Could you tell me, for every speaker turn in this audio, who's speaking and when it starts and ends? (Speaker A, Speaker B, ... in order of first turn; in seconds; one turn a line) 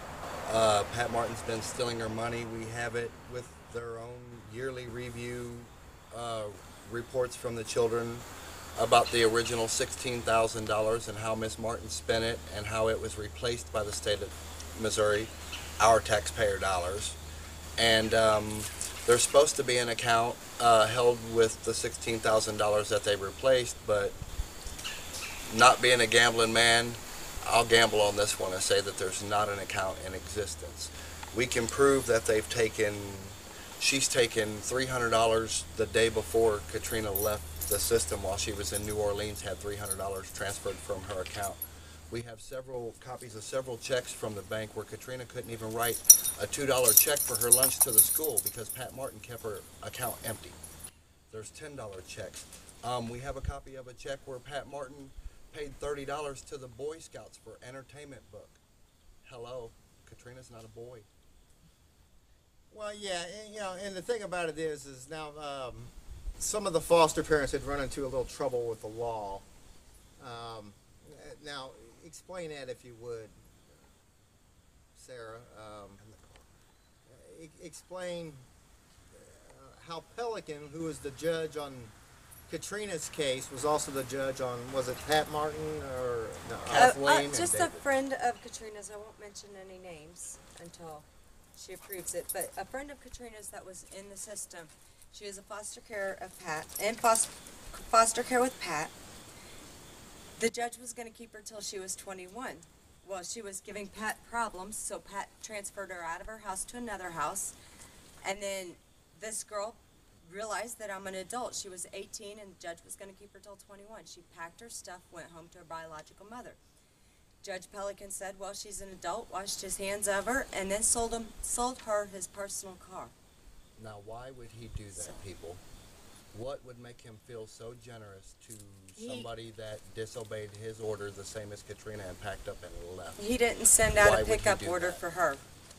Speaker A: 0.4-17.2
Speaker A: 17.8-24.1
Speaker A: 25.5-50.6
Speaker A: 51.3-58.6
Speaker A: 59.2-61.1
Speaker B: 62.7-69.4
Speaker B: 70.2-73.3
Speaker B: 74.9-76.0
Speaker A: 76.0-76.5
Speaker B: 77.1-78.4
Speaker B: 79.1-81.9
Speaker B: 82.5-87.0
Speaker A: 86.6-87.8
Speaker C: 86.7-98.9
Speaker C: 100.4-107.5
Speaker C: 108.2-116.6
Speaker C: 117.4-123.1
Speaker A: 123.8-125.6
Speaker A: 126.3-133.2
Speaker C: 129.0-129.3
Speaker C: 133.2-135.4
Speaker A: 133.9-135.0